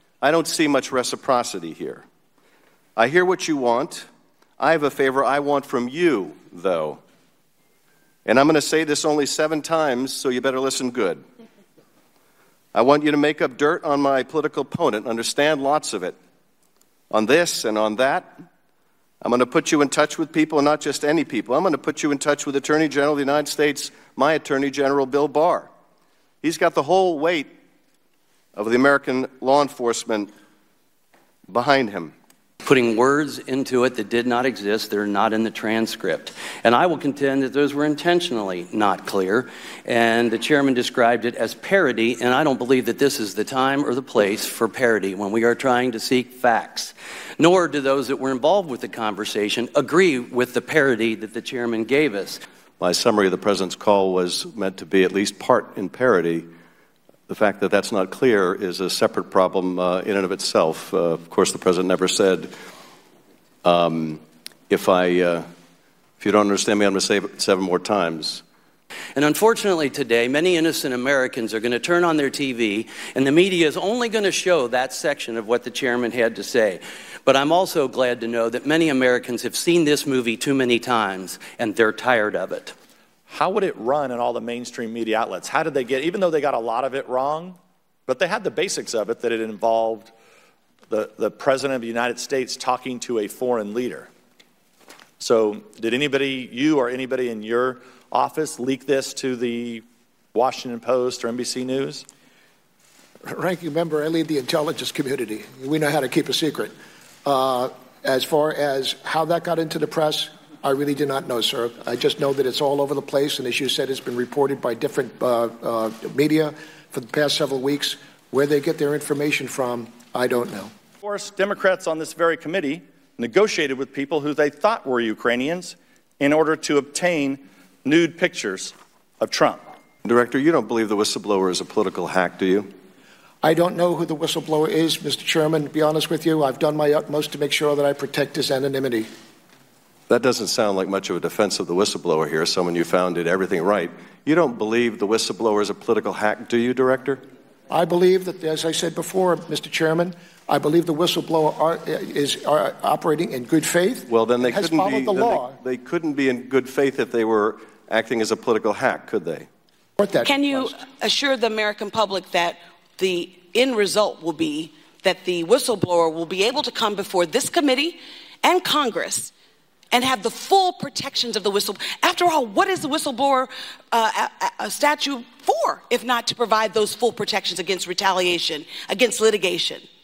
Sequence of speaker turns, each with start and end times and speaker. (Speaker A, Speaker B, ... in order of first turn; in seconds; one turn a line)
Speaker A: 0.2-2.0
Speaker A: 3.0-4.1
Speaker A: 4.6-7.0
Speaker A: 8.3-11.2
Speaker A: 12.7-16.1
Speaker A: 17.1-18.3
Speaker A: 19.2-25.7
Speaker A: 26.4-27.5
Speaker A: 28.6-30.3
Speaker A: 31.5-32.1
Speaker B: 32.6-52.4
Speaker A: 52.8-56.5
Speaker A: 57.3-62.5
Speaker A: 63.6-65.5
Speaker A: 66.2-68.4
Speaker B: 69.2-82.7
Speaker C: 83.3-90.1
Speaker C: 90.9-94.1
Speaker C: 95.2-102.1
Speaker D: 103.2-106.7
Speaker D: 107.2-120.7
Speaker C: 121.0-129.6
Speaker A: 130.0-132.7
Speaker D: 133.4-139.1
Speaker A: 140.1-147.2
Speaker D: 147.7-155.6
Speaker A: 154.1-159.5
Speaker D: 160.0-160.8
Speaker E: 160.2-169.3
Speaker E: 169.9-179.8